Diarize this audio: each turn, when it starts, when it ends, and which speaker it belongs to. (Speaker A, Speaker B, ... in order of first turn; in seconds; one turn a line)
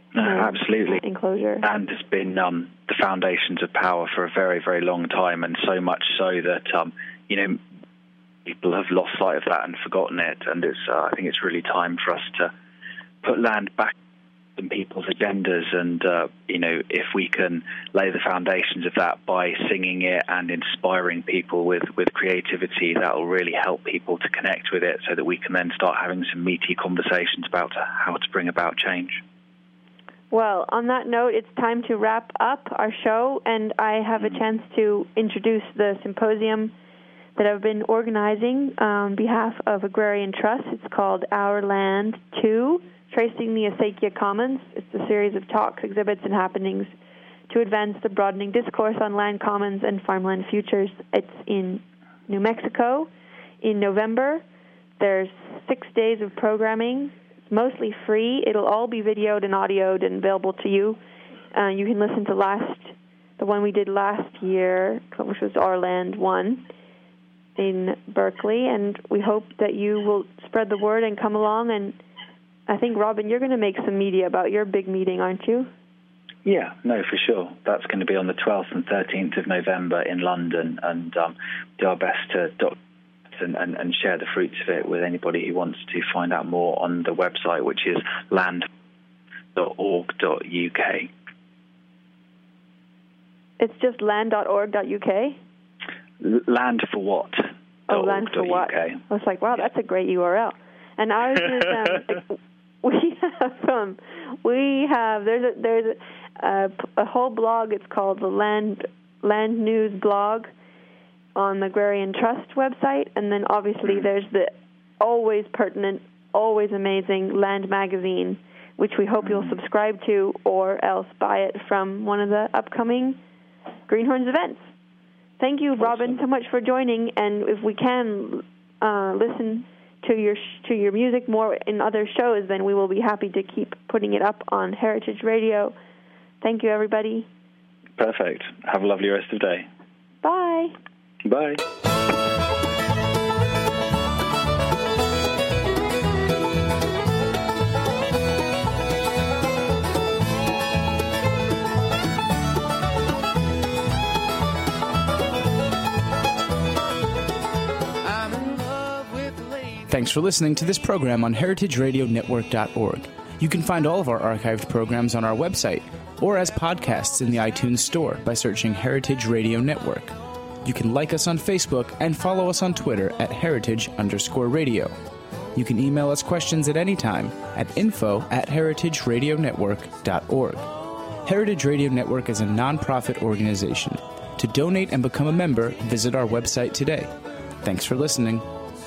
Speaker A: 0.1-1.0
Speaker B: 0.2-1.6
Speaker A: 1.6-7.6
Speaker A: 8.4-12.5
Speaker A: 13.2-13.9
Speaker A: 14.6-29.2
Speaker B: 30.3-36.7
Speaker B: 37.4-46.9
Speaker B: 47.5-53.1
Speaker B: 53.6-54.4
Speaker B: 55.0-61.0
Speaker B: 61.5-66.7
Speaker B: 67.6-72.0
Speaker B: 72.7-75.7
Speaker A: 76.4-82.8
Speaker A: 83.3-88.7
Speaker A: 89.5-91.1
Speaker B: 93.6-95.4
Speaker A: 96.2-99.0
Speaker B: 97.9-110.5
Speaker B: 111.3-123.2
Speaker A: 119.2-119.5
Speaker B: 123.9-124.6
Speaker B: 125.4-135.7
Speaker B: 136.4-137.3
Speaker A: 138.0-139.7
Speaker B: 140.2-140.7
Speaker A: 141.2-141.6
Speaker C: 159.8-174.9
Speaker C: 175.5-180.7
Speaker C: 181.2-188.5